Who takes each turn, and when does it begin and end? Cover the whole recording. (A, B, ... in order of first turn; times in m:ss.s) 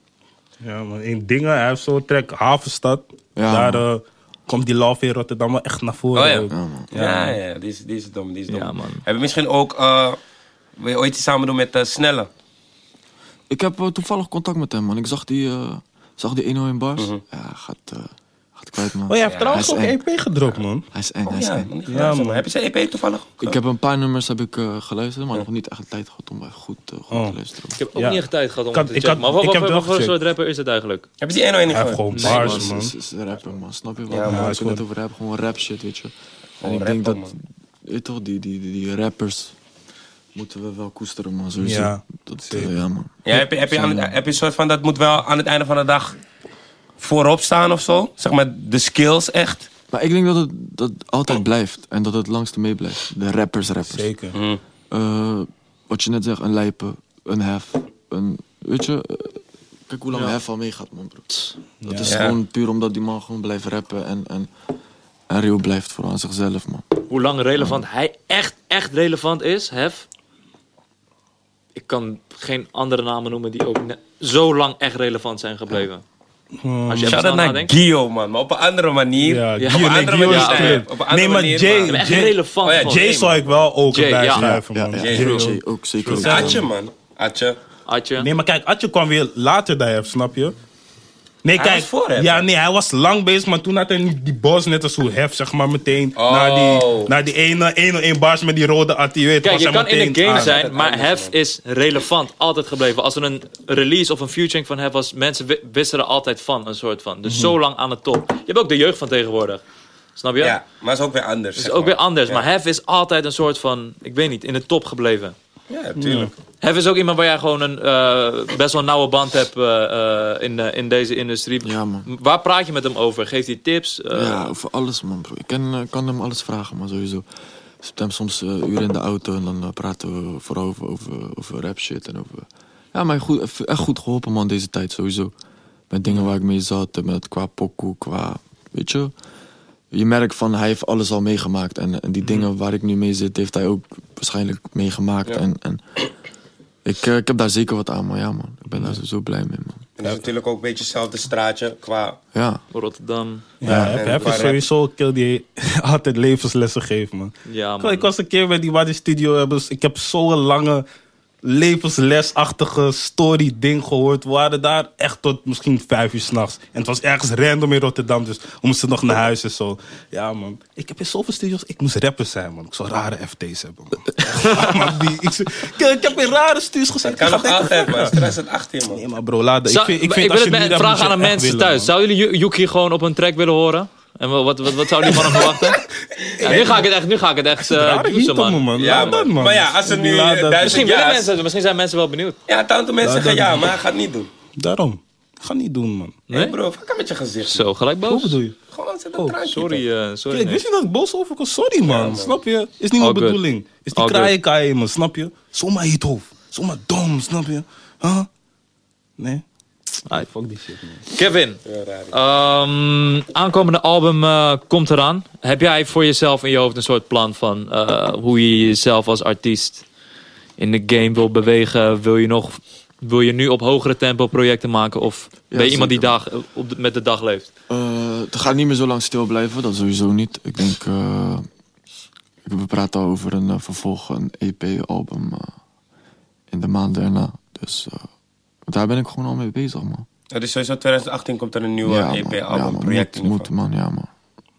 0:00.6-0:07.4 A
0:03.3-0:03.8 B
0:06.1-0:10.2 C
0:06.5-0:06.9 B
0:08.5-0:09.0 D
0:10.8-0:12.3 C
0:13.5-0:20.0 B
0:19.1-0:20.8 A
0:19.2-0:19.8 C
0:20.9-0:21.7 B
0:21.2-0:23.6 C
0:21.9-0:22.4 A
0:23.4-0:27.8 B
0:27.1-0:27.4 A
0:27.8-0:31.1 D
0:28.0-0:30.1 A
0:31.2-0:32.0 C
0:31.7-0:32.9 A
0:32.1-0:32.7 D
0:32.1-0:39.5 B
0:34.1-0:34.5 C
0:34.2-0:34.8 A
0:36.6-0:37.3 C
0:40.3-0:44.2 B
0:41.6-0:42.7 A
0:43.2-0:46.2 C
0:47.0-0:49.7 C
0:49.9-0:54.1 B
0:53.9-0:54.4 A
0:54.3-0:54.6 C
0:54.9-1:04.5 B
1:01.8-1:02.2 A
1:02.0-1:02.4 C
1:05.3-1:07.0 B
1:07.1-1:10.0 D
1:07.6-1:07.8 B
1:11.7-1:16.0 D
1:16.6-1:17.2 A
1:16.8-1:17.7 D
1:17.0-1:22.1 C
1:19.2-1:26.6 A
1:19.6-1:20.8 D
1:21.9-1:23.1 D
1:22.6-1:23.4 C
1:23.9-1:24.6 D
1:24.3-1:26.6 B
1:25.0-1:25.4 C
1:25.1-1:25.4 D
1:26.1-1:27.6 C
1:27.8-1:28.3 D
1:28.2-1:30.6 A
1:31.4-1:40.5 A
1:31.6-1:32.4 C
1:36.2-1:37.1 C
1:39.4-1:49.6 D
1:40.3-1:41.3 C
1:47.2-1:47.5 A
1:50.2-1:50.6 D
1:50.4-1:52.5 C
1:51.6-1:55.3 D
1:55.7-1:56.3 C
1:56.0-1:56.3 A
1:56.6-2:04.5 D
2:01.6-2:02.1 B
2:04.1-2:07.2 B
2:07.8-2:15.3 B
2:15.9-2:19.1 B
2:19.9-2:26.1 B
2:26.8-2:29.8 B
2:30.0-2:32.2 C
2:32.3-2:32.6 B
2:32.7-2:33.4 D
2:33.6-2:40.8 A
2:33.6-2:34.4 B
2:33.9-2:34.6 C
2:37.4-2:38.1 D
2:41.4-2:58.2 A
2:57.0-2:59.0 C
2:58.9-3:01.9 A
2:59.6-3:05.8 D
3:05.2-3:05.5 A
3:06.4-3:06.9 A
3:06.4-3:08.9 D
3:07.6-3:10.8 A
3:08.8-3:11.3 C
3:10.6-3:12.4 D
3:12.5-3:14.3 C
3:13.0-3:13.7 A
3:14.5-3:16.2 A
3:16.3-3:16.6 D
3:16.3-3:17.7 C
3:17.5-3:18.4 D
3:18.0-3:18.5 A
3:18.7-3:19.8 C
3:19.4-3:20.6 D
3:20.3-3:28.3 A
3:21.8-3:22.3 C
3:23.0-3:23.4 D
3:23.9-3:24.3 D
3:29.2-3:29.4 A
3:30.1-3:31.0 A
3:31.1-3:31.6 D
3:31.6-3:32.2 C
3:32.1-3:39.8 D
3:40.6-3:47.5 D
3:45.5-3:46.2 B
3:47.7-3:51.5 B
3:52.4-3:55.5 B
3:56.5-3:58.0 B
3:58.7-4:00.1 B
4:00.3-4:03.5 C
4:01.8-4:04.1 B